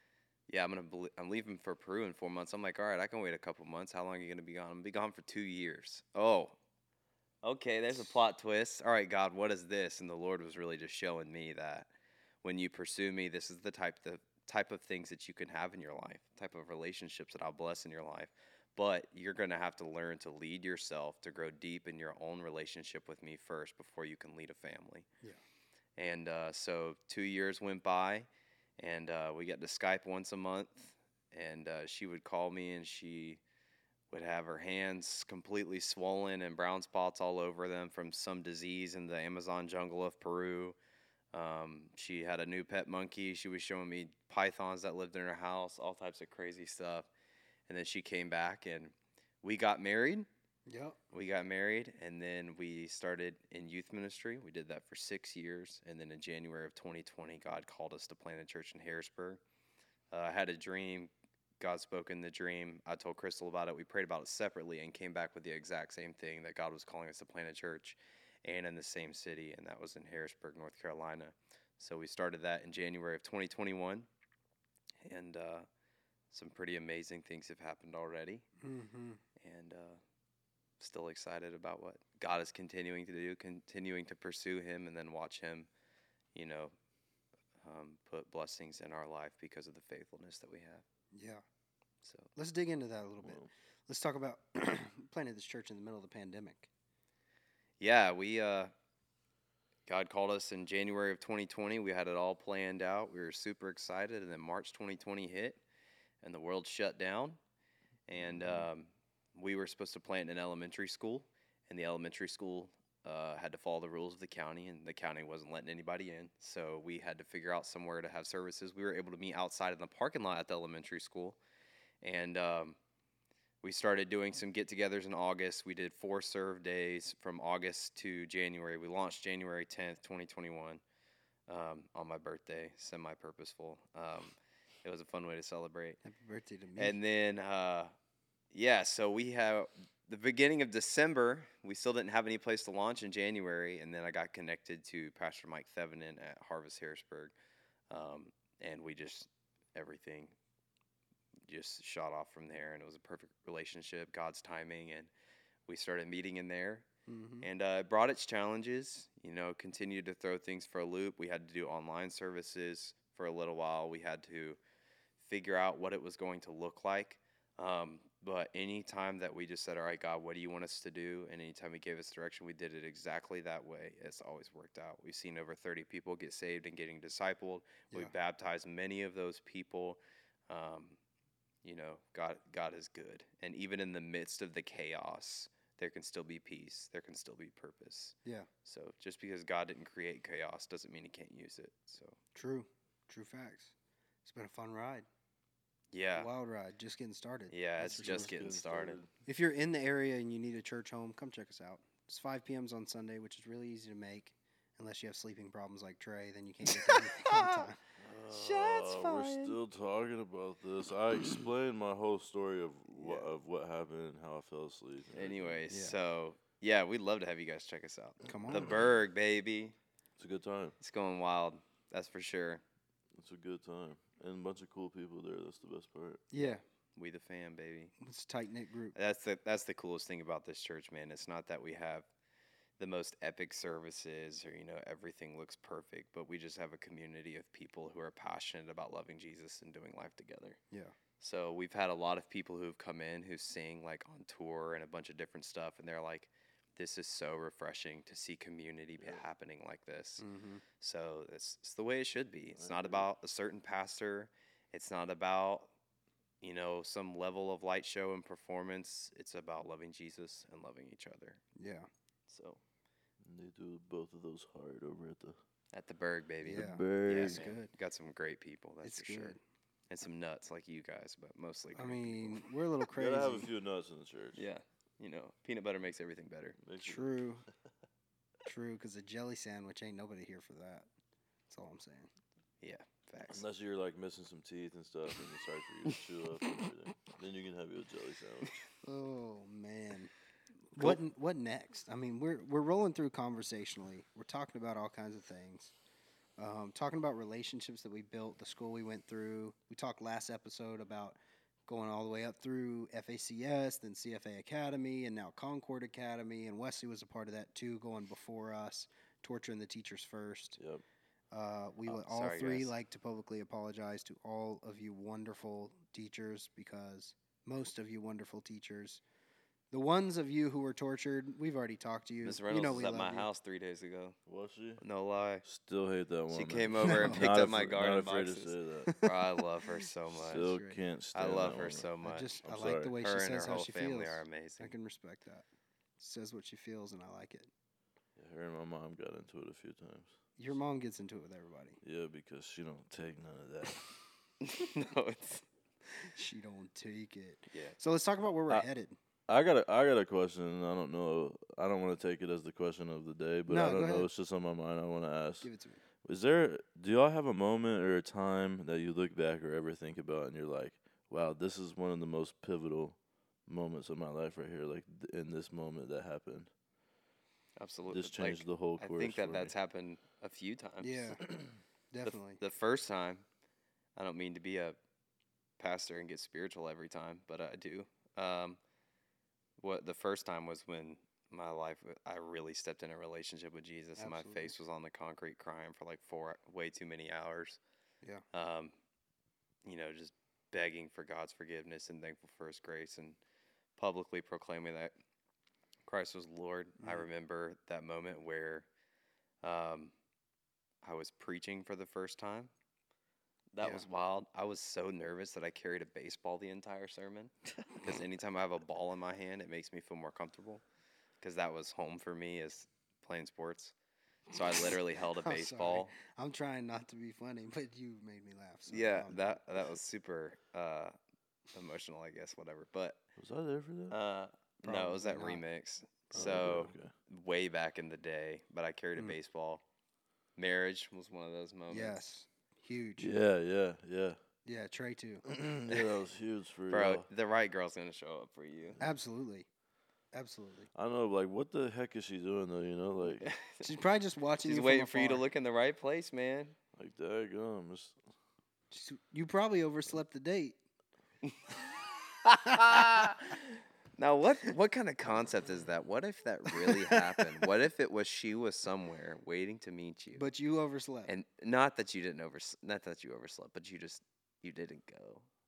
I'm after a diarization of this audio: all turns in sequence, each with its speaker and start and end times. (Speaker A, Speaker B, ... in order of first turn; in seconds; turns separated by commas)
Speaker A: 0.5-6.5, Speaker A: 7.4-11.9, Speaker A: 12.4-25.1, Speaker A: 26.0-28.3, Speaker A: 28.8-33.4, Speaker A: 34.1-40.8, Speaker A: 41.3-47.1, Speaker A: 47.7-50.3, Speaker B: 50.7-51.0, Speaker A: 51.1-59.4, Speaker A: 60.1-74.1, Speaker A: 75.0-75.7, Speaker A: 76.3-78.5, Speaker B: 78.6-79.2, Speaker A: 79.4-80.0, Speaker A: 80.8-85.7, Speaker A: 86.3-86.7, Speaker A: 87.6-90.8, Speaker B: 91.1-91.4, Speaker A: 92.0-92.3, Speaker B: 92.3-96.7, Speaker C: 93.2-93.5, Speaker A: 97.8-98.7, Speaker A: 99.9-105.6, Speaker A: 106.2-107.4, Speaker A: 108.1-121.4, Speaker C: 108.2-108.7, Speaker A: 122.0-122.8, Speaker A: 123.6-130.8, Speaker A: 131.5-136.0, Speaker B: 136.0-137.0, Speaker A: 136.8-137.9, Speaker A: 138.5-147.3, Speaker A: 147.9-150.3, Speaker A: 151.5-155.1, Speaker A: 155.7-156.8, Speaker B: 157.1-157.5, Speaker A: 157.4-164.6, Speaker A: 165.2-181.0, Speaker A: 181.6-192.2, Speaker B: 192.3-193.7, Speaker B: 194.2-195.1, Speaker A: 195.9-196.3, Speaker B: 196.1-198.3, Speaker A: 197.5-199.0, Speaker C: 197.8-199.1, Speaker B: 199.2-207.8, Speaker A: 206.7-207.7, Speaker C: 208.0-215.6, Speaker A: 208.3-209.6, Speaker A: 212.9-213.3, Speaker A: 215.1-219.8, Speaker B: 215.7-215.9, Speaker B: 218.2-218.7, Speaker C: 220.2-220.8, Speaker A: 220.8-222.6, Speaker C: 223.1-226.2, Speaker B: 226.3-226.6, Speaker A: 226.9-227.9, Speaker B: 228.0-228.9, Speaker A: 228.9-232.1, Speaker A: 232.8-240.6, Speaker A: 241.2-250.2, Speaker B: 250.2-250.6, Speaker A: 250.8-255.7, Speaker C: 252.5-253.1, Speaker A: 256.4-261.4, Speaker B: 261.6-261.9, Speaker A: 262.3-262.6, Speaker C: 263.2-265.4, Speaker A: 265.7-269.4, Speaker C: 266.4-267.5, Speaker B: 266.4-267.7, Speaker B: 268.8-269.4, Speaker A: 269.9-272.5, Speaker B: 271.7-273.5, Speaker C: 272.9-274.4, Speaker A: 274.4-276.6, Speaker C: 276.6-277.1, Speaker B: 276.8-277.4, Speaker B: 278.4-280.9, Speaker B: 281.5-282.1, Speaker A: 282.6-283.4, Speaker C: 283.3-288.5, Speaker B: 288.8-290.1, Speaker B: 290.7-295.7, Speaker B: 296.4-301.1, Speaker B: 301.7-310.6, Speaker C: 310.6-310.8, Speaker B: 311.3-319.0, Speaker A: 311.9-312.7, Speaker B: 319.7-323.3, Speaker A: 322.2-324.2, Speaker C: 324.3-324.8, Speaker A: 324.8-325.4, Speaker C: 325.4-328.9, Speaker A: 326.3-330.5, Speaker B: 326.8-327.2, Speaker B: 328.9-329.2, Speaker C: 330.1-331.9, Speaker B: 330.4-330.8, Speaker A: 331.1-332.4, Speaker B: 332.0-335.4, Speaker C: 332.4-332.9, Speaker A: 332.9-334.7, Speaker B: 336.0-337.5, Speaker C: 338.2-340.1, Speaker B: 340.4-341.8, Speaker C: 341.8-343.9, Speaker A: 344.4-345.4, Speaker B: 346.0-348.9, Speaker C: 349.3-355.5, Speaker B: 353.5-354.1, Speaker B: 355.4-355.8, Speaker C: 356.0-366.5, Speaker A: 367.6-371.3, Speaker C: 367.9-369.5, Speaker B: 370.8-371.2, Speaker B: 371.9-372.4, Speaker A: 372.0-373.2, Speaker A: 374.0-374.8, Speaker A: 375.6-378.6, Speaker A: 379.6-387.6, Speaker B: 384.0-384.5, Speaker A: 388.3-388.7, Speaker A: 389.6-393.2, Speaker A: 393.8-394.9, Speaker A: 395.9-398.6, Speaker B: 396.8-397.0, Speaker A: 399.4-399.9, Speaker A: 400.8-402.5, Speaker A: 403.5-410.6, Speaker A: 411.2-413.7, Speaker A: 414.3-415.9, Speaker B: 415.2-419.4, Speaker A: 418.7-420.9, Speaker A: 421.5-423.0, Speaker C: 423.2-423.9, Speaker A: 423.9-429.6, Speaker B: 424.6-425.4, Speaker B: 426.1-426.4, Speaker C: 426.1-426.9, Speaker A: 430.4-432.1, Speaker B: 431.7-433.1, Speaker C: 433.0-434.2, Speaker B: 434.4-435.2, Speaker C: 435.2-437.1, Speaker A: 436.7-438.8, Speaker B: 438.8-439.5, Speaker B: 440.1-440.7, Speaker C: 440.7-443.3, Speaker A: 443.2-443.7, Speaker B: 443.6-445.2, Speaker A: 444.4-446.6, Speaker C: 446.7-448.0, Speaker B: 448.7-450.6, Speaker A: 452.2-460.3, Speaker B: 456.5-457.2, Speaker B: 460.1-461.1, Speaker A: 461.1-465.2